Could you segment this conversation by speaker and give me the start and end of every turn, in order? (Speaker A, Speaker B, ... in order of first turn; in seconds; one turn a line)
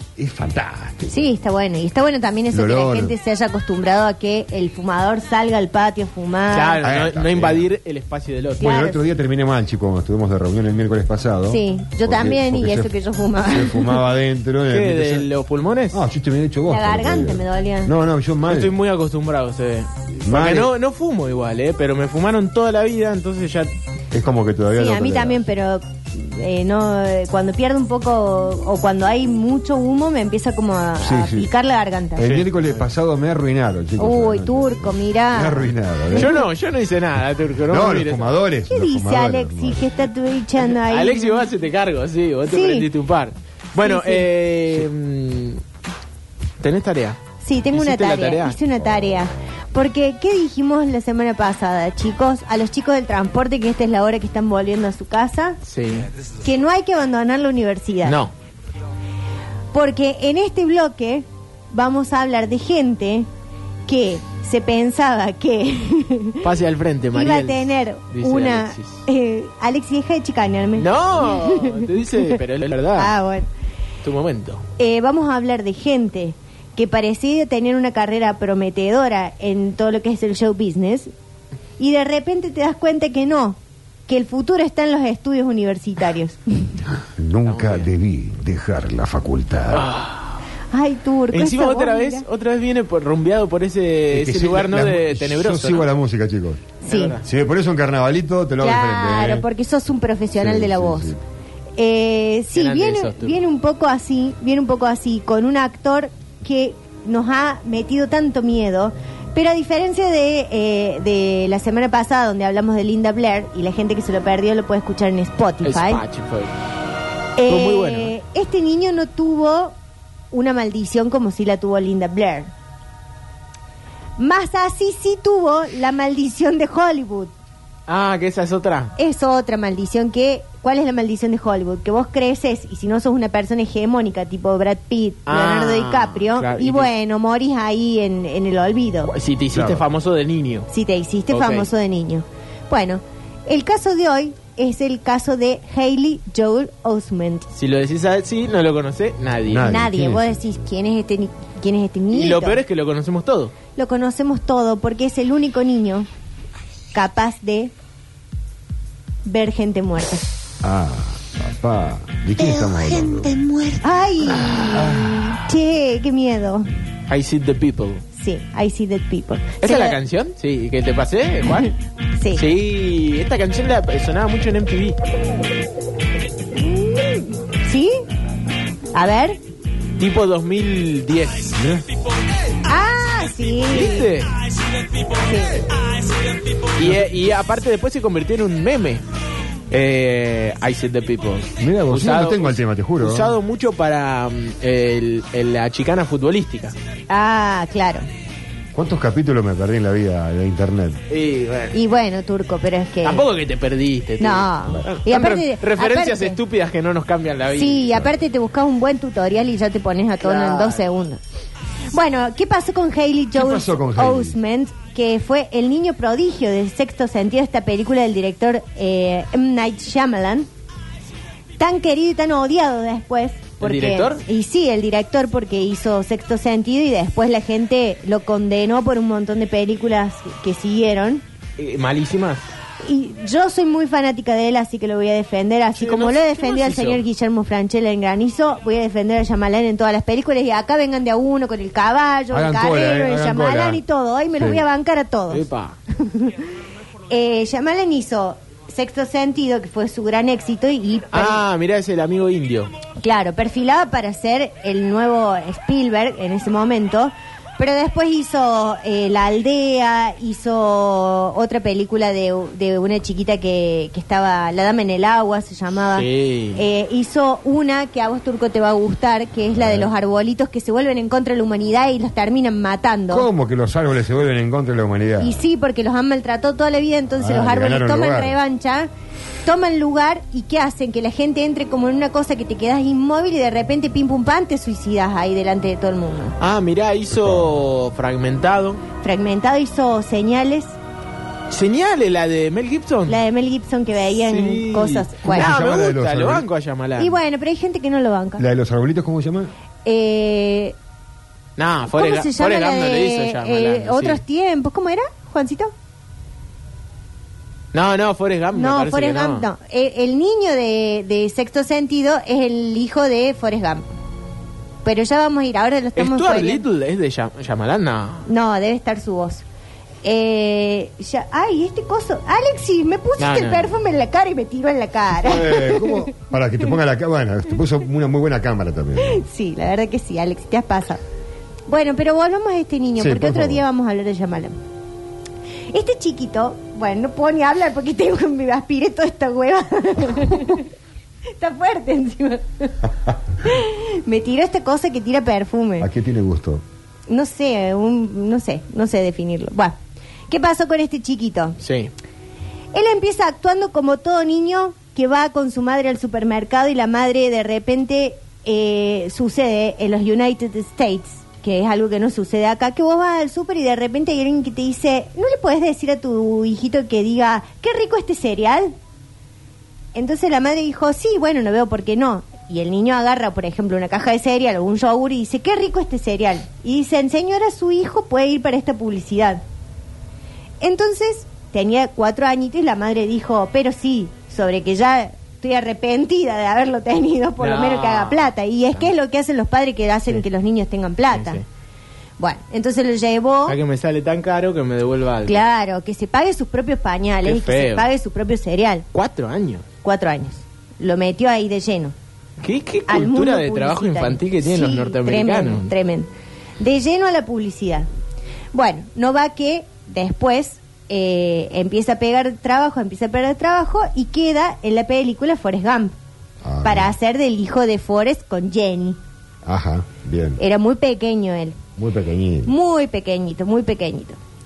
Speaker A: 0.2-1.3
Speaker B: 1.1-6.9
Speaker A: 2.5-3.1
Speaker C: 6.5-8.7
Speaker A: 6.8-7.7
Speaker B: 8.6-9.0
Speaker A: 8.6-12.9
Speaker B: 11.5-14.0
Speaker A: 13.5-15.3
Speaker C: 14.7-16.0
Speaker A: 15.9-18.7
Speaker B: 16.7-17.9
Speaker C: 18.4-23.7
Speaker A: 20.2-20.7
Speaker A: 24.1-25.5
Speaker B: 24.7-32.3
Speaker A: 31.0-31.5
Speaker A: 32.1-36.4
Speaker C: 32.2-32.6
Speaker B: 34.0-36.4
Speaker C: 36.1-38.4
Speaker A: 37.7-39.9
Speaker B: 38.7-41.5
Speaker C: 40.6-45.6
Speaker B: 42.5-42.9
Speaker B: 43.8-44.3
Speaker C: 46.6-47.2
Speaker B: 47.4-55.6
Speaker C: 47.7-48.6
Speaker C: 55.6-56.1
Speaker B: 56.4-58.2
Speaker C: 58.0-58.3
Speaker B: 59.7-63.3
Speaker B: 63.9-66.5
Speaker C: 66.4-69.0
Speaker B: 67.1-71.9
Speaker C: 70.8-73.1
Speaker B: 73.0-73.5
Speaker C: 74.0-74.6
Speaker B: 74.8-81.1
Speaker B: 81.8-86.8
Speaker A: 87.0-89.9
Speaker C: 87.5-87.9
Speaker C: 89.7-90.3
Speaker B: 90.7-92.2
Speaker C: 91.3-95.9
Speaker A: 94.1-99.4
Speaker B: 96.8-97.2
Speaker C: 96.9-97.2
Speaker B: 98.6-101.1
Speaker A: 100.4-101.2
Speaker B: 101.8-116.0
Speaker C: 102.5-103.4
Speaker C: 115.6-116.5
Speaker B: 117.4-119.7
Speaker C: 117.5-118.2
Speaker B: 120.3-122.5
Speaker B: 124.2-127.3
Speaker C: 127.9-128.9
Speaker B: 129.0-139.1
Speaker C: 135.3-136.9
Speaker C: 139.1-140.7
Speaker A: 139.5-139.8
Speaker B: 140.7-147.5
Speaker C: 141.3-141.7
Speaker C: 147.6-149.7
Speaker A: 149.5-150.4
Speaker B: 149.6-152.6
Speaker C: 152.1-153.5
Speaker B: 153.7-156.1
Speaker B: 156.9-157.7
Speaker B: 159.2-160.2
Speaker A: 160.6-163.4
Speaker C: 163.1-163.8
Speaker B: 163.8-166.7
Speaker A: 164.3-165.4
Speaker C: 167.1-168.0
Speaker B: 168.1-170.0
Speaker C: 169.6-171.7
Speaker B: 172.2-172.4
Speaker C: 172.3-175.0
Speaker B: 176.6-178.0
Speaker B: 178.9-179.4
Speaker C: 180.0-181.6
Speaker A: 181.5-181.8
Speaker B: 182.6-184.1
Speaker C: 183.7-184.3
Speaker B: 185.1-185.7
Speaker C: 186.7-189.0
Speaker C: 189.7-196.7
Speaker A: 191.6-193.4
Speaker B: 197.1-198.1
Speaker A: 198.7-201.0
Speaker C: 201.1-201.8
Speaker B: 201.7-203.2
Speaker C: 203.0-207.9
Speaker B: 204.2-206.4
Speaker B: 207.5-211.2
Speaker C: 210.2-210.8
Speaker B: 211.9-220.5
Speaker A: 213.3-214.4
Speaker B: 221.6-231.2
Speaker C: 223.6-224.2
Speaker C: 231.6-232.4
Speaker B: 232.8-246.3
Speaker C: 235.8-237.0
Speaker A: 242.3-243.8
Speaker A: 244.4-244.6
Speaker C: 245.3-245.8
Speaker B: 247.1-251.4
Speaker C: 251.1-252.7
Speaker B: 253.0-273.3
Speaker C: 265.9-266.6
Speaker A: 269.6-269.9
Speaker A: 273.1-275.4
Speaker B: 275.2-278.9
Speaker A: 277.2-278.4
Speaker B: 279.4-286.4
Speaker C: 286.4-288.8
Speaker A: 287.2-287.5
Speaker B: 289.0-290.8
Speaker C: 291.5-293.2
Speaker B: 293.1-295.5
Speaker C: 294.2-297.1
Speaker A: 295.2-296.4
Speaker B: 297.0-298.4
Speaker A: 298.4-299.5
Speaker B: 299.8-300.8
Speaker C: 301.6-304.2
Speaker B: 301.9-305.7
Speaker C: 307.7-309.5
Speaker B: 308.6-313.8
Speaker B: 314.8-316.6
Speaker C: 315.9-318.3
Speaker B: 318.2-319.4
Speaker B: 320.0-326.1
Speaker C: 323.2-323.7
Speaker A: 325.2-329.2
Speaker B: 329.0-331.0
Speaker B: 331.7-334.6
Speaker A: 333.0-333.6
Speaker B: 335.7-340.7
Speaker B: 341.3-342.8
Speaker B: 343.4-345.9
Speaker A: 345.8-346.6
Speaker B: 347.1-349.8
Speaker B: 350.3-351.6
Speaker C: 351.6-351.9
Speaker B: 352.7-368.7
Speaker B: 369.9-379.4
Speaker B: 380.6-391.4
Speaker C: 387.4-388.9
Speaker C: 391.1-391.4
Speaker B: 392.2-393.6
Speaker C: 393.5-395.4
Speaker B: 395.2-398.8
Speaker C: 397.2-397.9
Speaker C: 398.9-399.6
Speaker B: 399.8-401.9
Speaker C: 402.4-405.7
Speaker B: 402.9-407.9
Speaker B: 408.5-415.9
Speaker A: 416.4-416.9
Speaker B: 416.6-419.0
Speaker A: 419.4-420.4
Speaker B: 420.4-421.6
Speaker A: 421.8-422.5
Speaker B: 422.4-424.2